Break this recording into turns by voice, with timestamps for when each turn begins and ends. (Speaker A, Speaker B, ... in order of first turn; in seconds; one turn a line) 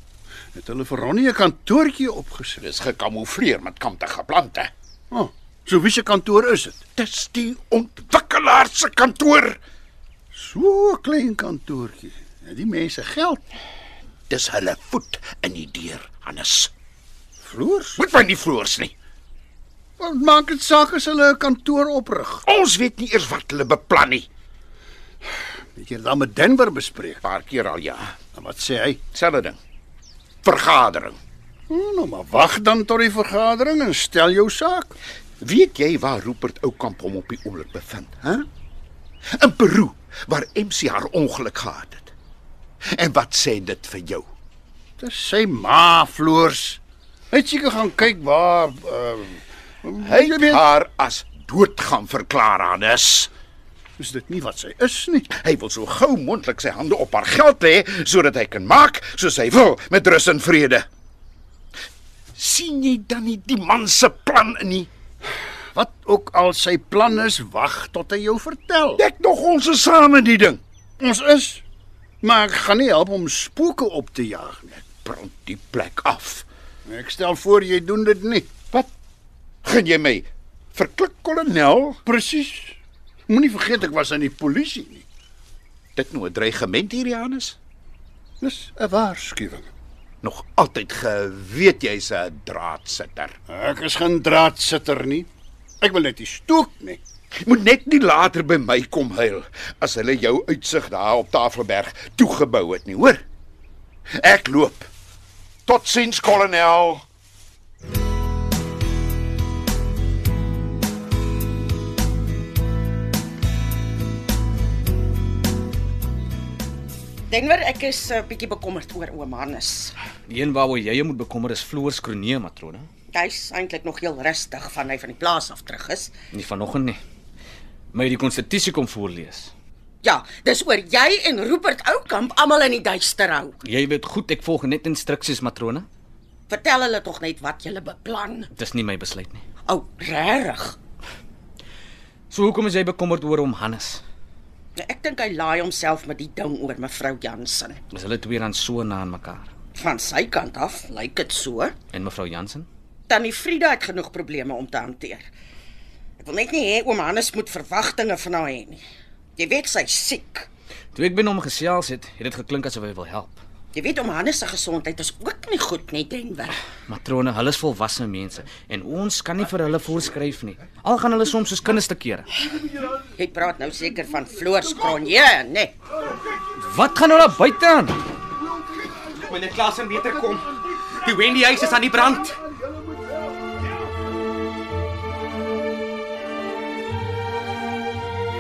Speaker A: 0.6-2.6
Speaker B: 2.6-4.7
Speaker A: 5.1-6.8
Speaker B: 7.0-9.6
Speaker A: 10.3-13.4
Speaker B: 14.3-16.7
Speaker A: 17.4-18.0
Speaker B: 18.0-18.9
Speaker A: 20.0-22.4
Speaker B: 22.4-24.3
Speaker A: 25.8-27.2
Speaker B: 27.2-28.2
Speaker A: 28.3-29.0
Speaker B: 29.1-29.6
Speaker B: 30.4-31.2
Speaker A: 31.7-35.0
Speaker B: 35.4-38.5
Speaker B: 39.4-42.1
Speaker B: 42.9-44.3
Speaker A: 45.0-46.8
Speaker A: 47.3-50.6
Speaker B: 50.0-53.3
Speaker A: 54.0-55.3
Speaker B: 55.3-60.9
Speaker B: 62.4-64.9
Speaker A: 65.7-69.0
Speaker B: 69.0-70.6
Speaker A: 71.0-71.6
Speaker A: 72.2-74.8
Speaker B: 74.8-76.5
Speaker A: 76.9-78.5
Speaker B: 79.6-82.0
Speaker A: 82.1-82.8
Speaker A: 83.3-85.0
Speaker B: 86.0-87.6
Speaker A: 88.4-89.7
Speaker B: 90.2-93.4
Speaker A: 93.5-95.3
Speaker A: 95.8-97.0
Speaker B: 97.3-103.2
Speaker B: 104.2-104.9
Speaker B: 105.7-107.0
Speaker C: 117.3-120.0
Speaker D: 120.3-122.9
Speaker C: 123.1-126.1
Speaker D: 126.3-127.0
Speaker D: 127.9-129.5
Speaker C: 130.0-133.6
Speaker D: 133.6-135.9
Speaker C: 136.5-138.5
Speaker D: 138.6-139.4
Speaker C: 139.7-140.8
Speaker D: 142.3-144.0
Speaker C: 144.8-147.8
Speaker D: 147.9-149.5
Speaker C: 149.8-151.8
Speaker D: 151.9-152.7
Speaker C: 153.1-155.3
Speaker C: 156.2-158.8
Speaker C: 159.4-160.5
Speaker D: 160.9-163.4
Speaker C: 163.7-166.6
Speaker D: 166.9-172.3
Speaker C: 173.2-175.8
Speaker D: 176.6-178.0
Speaker E: 179.1-182.4
Speaker A: 182.7-183.0